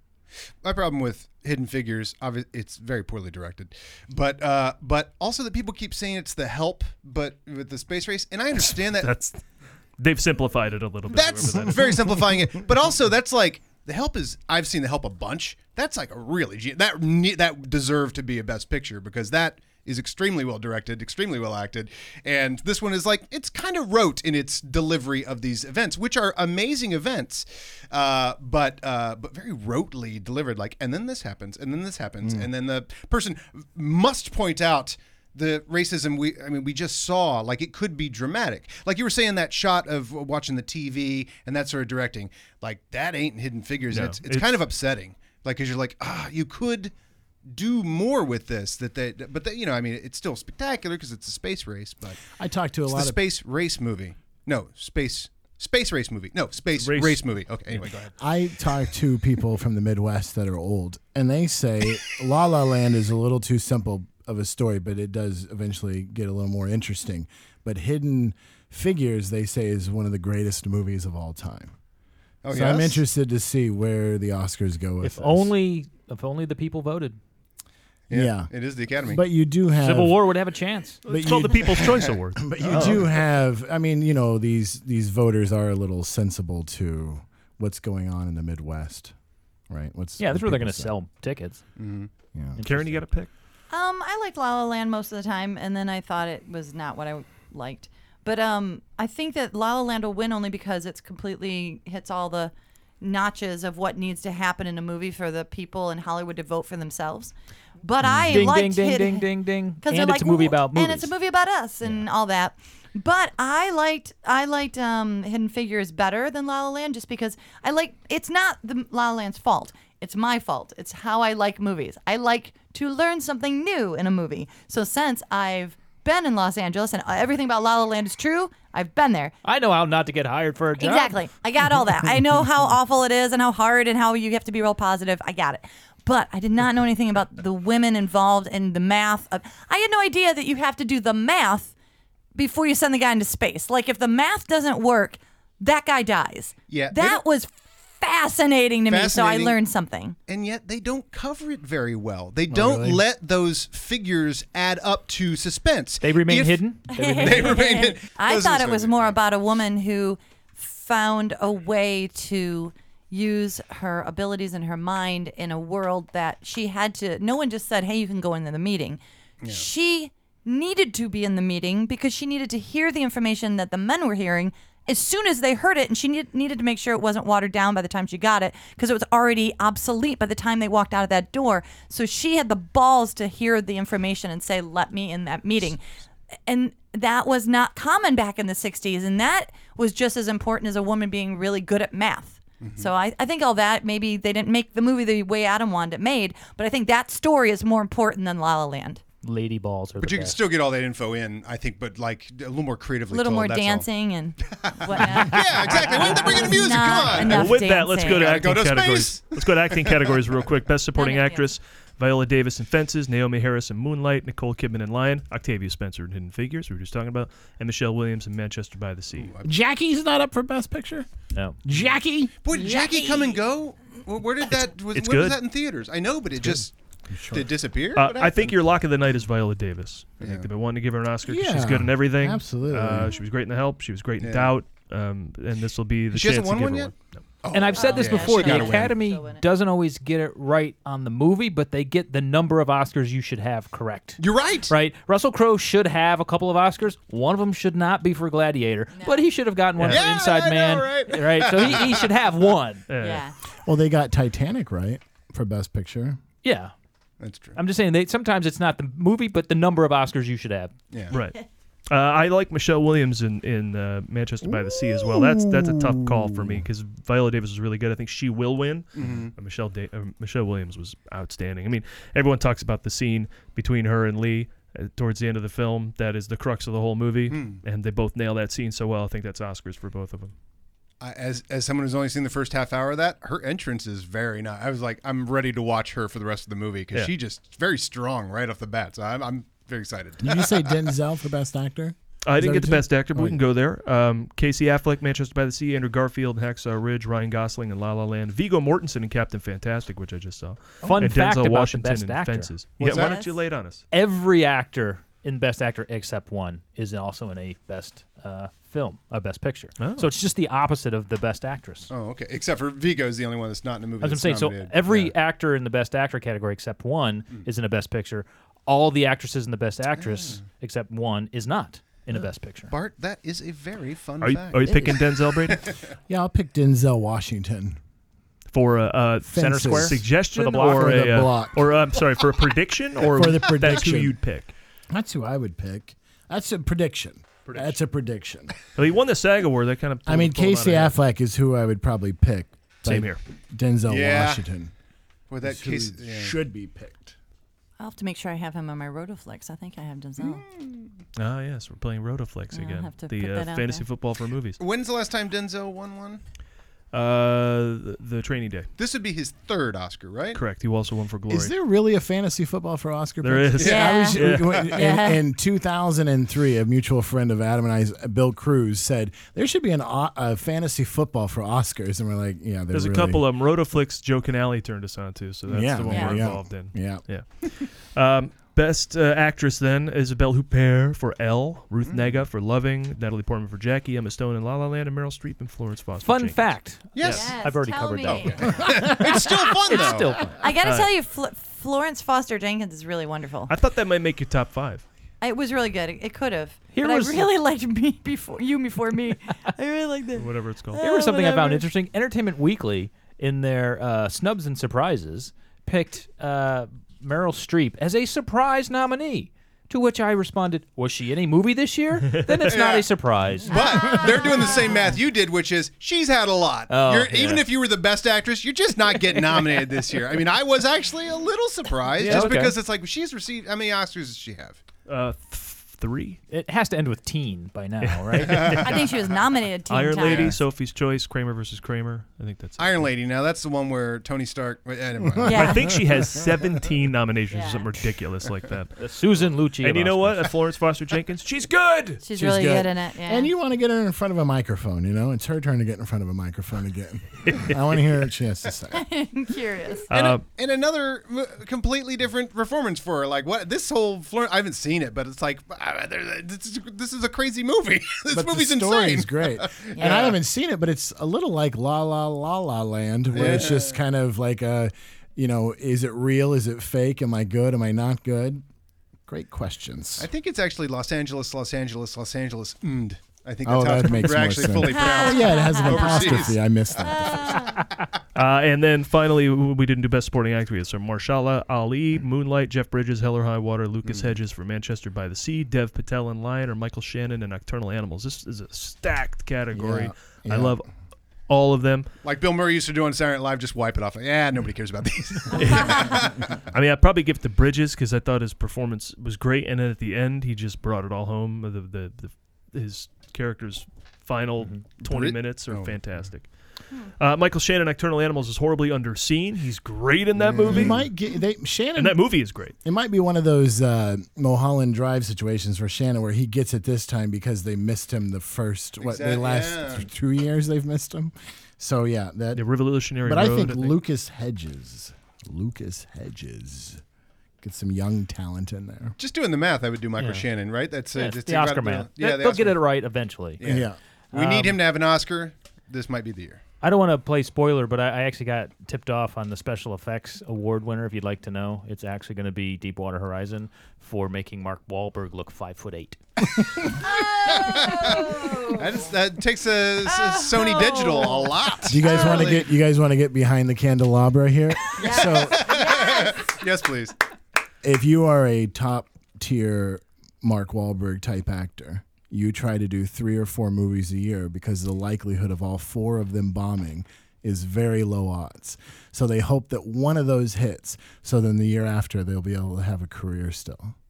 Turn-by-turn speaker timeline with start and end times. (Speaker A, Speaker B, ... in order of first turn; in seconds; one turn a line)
Speaker A: 0.6-9.1
Speaker B: 8.9-9.4
Speaker B: 10.0-12.1
Speaker A: 11.1-46.9
Speaker B: 43.9-44.6
Speaker A: 47.5-52.2
Speaker C: 52.3-53.2
Speaker A: 52.9-58.1
Speaker B: 56.8-57.2
Speaker C: 58.2-71.7
Speaker A: 72.4-73.0
Speaker C: 72.5-75.5
Speaker D: 75.0-77.2
Speaker A: 78.1-79.2
Speaker C: 78.1-78.5
Speaker C: 79.0-80.2
Speaker D: 79.8-81.0
Speaker B: 81.1-82.4
Speaker C: 81.1-89.1
Speaker A: 81.8-82.1
Speaker A: 82.6-83.1
Speaker C: 89.7-90.9
Speaker D: 90.2-91.6
Speaker A: 91.8-92.1
Speaker C: 92.3-92.6
Speaker D: 92.6-93.0
Speaker B: 92.6-93.3
Speaker E: 93.7-109.3
Speaker C: 108.0-108.5
Speaker D: 108.3-111.1
Speaker E: 109.8-129.3
Speaker D: 129.4-131.2
Speaker E: 130.8-141.7
Speaker E: 142.3-150.2
Speaker A: 146.7-147.2
Speaker A: 148.9-149.6
Speaker A: 150.3-159.2
Speaker C: 152.5-153.0
Speaker D: 156.0-157.6
Speaker E: 156.9-185.8
Speaker A: 169.4-169.7
Speaker E: 186.5-199.0
Speaker A: 192.6-192.9
Speaker D: 199.2-200.4
Speaker A: 200.0-203.9
Speaker E: 203.1-208.3
Speaker A: 204.6-210.2
Speaker B: 207.1-219.3
Speaker E: 210.9-211.5
Speaker A: 219.1-219.5
Speaker C: 219.4-221.1
Speaker C: 221.7-222.4
Speaker A: 222.4-226.7
Speaker E: 222.5-223.4
Speaker B: 224.9-225.4
Speaker C: 226.4-227.5
Speaker A: 227.3-228.5
Speaker B: 228.0-237.1
Speaker A: 230.2-230.5
Speaker C: 231.3-233.2
Speaker A: 234.2-234.5
Speaker A: 236.1-239.0
Speaker D: 237.5-252.9
Speaker E: 237.7-239.4
Speaker A: 244.2-244.7
Speaker E: 248.9-249.2
Speaker A: 249.8-252.1
Speaker B: 252.9-253.2
Speaker E: 253.0-253.3
Speaker C: 253.7-256.2
Speaker D: 256.4-256.7
Speaker A: 257.2-257.6
Speaker D: 257.6-260.7
Speaker B: 261.1-261.4
Speaker B: 261.9-280.3
Speaker C: 264.4-266.6
Speaker A: 268.9-269.3
Speaker A: 277.3-277.6
Speaker A: 281.0-290.7
Speaker C: 290.2-293.4
Speaker B: 292.2-303.8
Speaker D: 300.8-302.5
Speaker A: 302.8-303.2
Speaker E: 302.9-303.4
Speaker D: 303.9-311.9
Speaker B: 309.8-310.1
Speaker A: 311.9-315.1
Speaker D: 314.0-322.7
Speaker A: 320.0-320.4
Speaker A: 322.7-325.0
Speaker B: 324.2-325.7
Speaker C: 326.1-327.8
Speaker B: 328.5-334.5
Speaker C: 329.3-331.7
Speaker D: 329.4-331.2
Speaker C: 333.0-334.2
Speaker C: 334.9-338.6
Speaker B: 337.5-337.8
Speaker B: 338.8-341.0
Speaker C: 340.1-344.7
Speaker B: 342.8-343.2
Speaker A: 343.9-344.4
Speaker A: 345.3-346.4
Speaker C: 345.4-347.2
Speaker E: 347.8-350.4
Speaker A: 350.2-350.9
Speaker B: 351.2-354.6
Speaker E: 352.5-353.9
Speaker A: 354.6-356.2
Speaker B: 356.9-358.7
Speaker A: 358.8-360.4
Speaker B: 360.3-361.5
Speaker C: 361.3-373.2
Speaker B: 363.2-364.7
Speaker A: 363.6-363.9
Speaker E: 363.6-365.2
Speaker B: 372.7-386.5
Speaker C: 375.5-377.0
Speaker E: 375.9-376.3
Speaker A: 381.9-382.2
Speaker D: 386.0-390.4
Speaker A: 386.9-387.4
Speaker E: 387.0-388.9
Speaker A: 388.0-390.2
Speaker E: 390.4-393.5
Speaker B: 390.6-390.9
Speaker B: 393.5-394.9
Speaker E: 395.2-401.7
Speaker D: 396.7-397.3
Speaker B: 400.2-400.8
Speaker D: 400.8-413.6
Speaker A: 412.5-412.9
Speaker A: 413.5-424.6
Speaker E: 413.5-414.9
Speaker D: 416.7-417.5
Speaker B: 422.0-422.4
Speaker D: 422.0-422.6
Speaker B: 424.9-426.2
Speaker D: 426.3-428.6
Speaker B: 427.8-428.8
Speaker E: 428.6-430.4
Speaker B: 429.7-432.9
Speaker A: 430.0-430.4
Speaker A: 432.6-435.5
Speaker E: 435.3-435.6
Speaker B: 435.3-438.8
Speaker E: 437.3-437.6
Speaker D: 438.8-440.3
Speaker B: 439.6-442.0
Speaker E: 442.0-443.3
Speaker C: 442.1-448.8
Speaker B: 447.3-447.6
Speaker E: 448.7-449.9
Speaker B: 449.9-450.2
Speaker A: 449.9-460.2
Speaker C: 458.1-468.4
Speaker E: 459.8-460.1
Speaker A: 463.1-463.8
Speaker C: 469.1-470.1
Speaker A: 470.0-476.4
Speaker C: 473.4-477.4
Speaker E: 474.7-477.7
Speaker B: 478.1-490.6
Speaker C: 489.5-490.6
Speaker B: 491.3-491.9
Speaker A: 492.0-496.3
Speaker E: 495.3-496.1
Speaker B: 495.3-506.3
Speaker A: 504.8-505.8
Speaker B: 507.0-510.9
Speaker A: 510.2-510.8
Speaker C: 510.4-512.0
Speaker B: 511.8-512.5
Speaker C: 512.6-522.5
Speaker A: 518.8-519.9
Speaker B: 522.4-523.8
Speaker C: 523.0-526.8
Speaker C: 527.4-529.0
Speaker A: 529.0-532.6
Speaker D: 530.0-530.2
Speaker D: 531.0-533.4
Speaker A: 533.4-536.4
Speaker C: 533.4-533.8
Speaker D: 534.1-534.6
Speaker D: 536.6-546.0
Speaker E: 546.8-548.9
Speaker A: 547.3-552.5
Speaker E: 549.9-552.4
Speaker C: 551.7-555.5
Speaker E: 554.8-556.3
Speaker A: 554.8-557.0
Speaker C: 557.6-573.7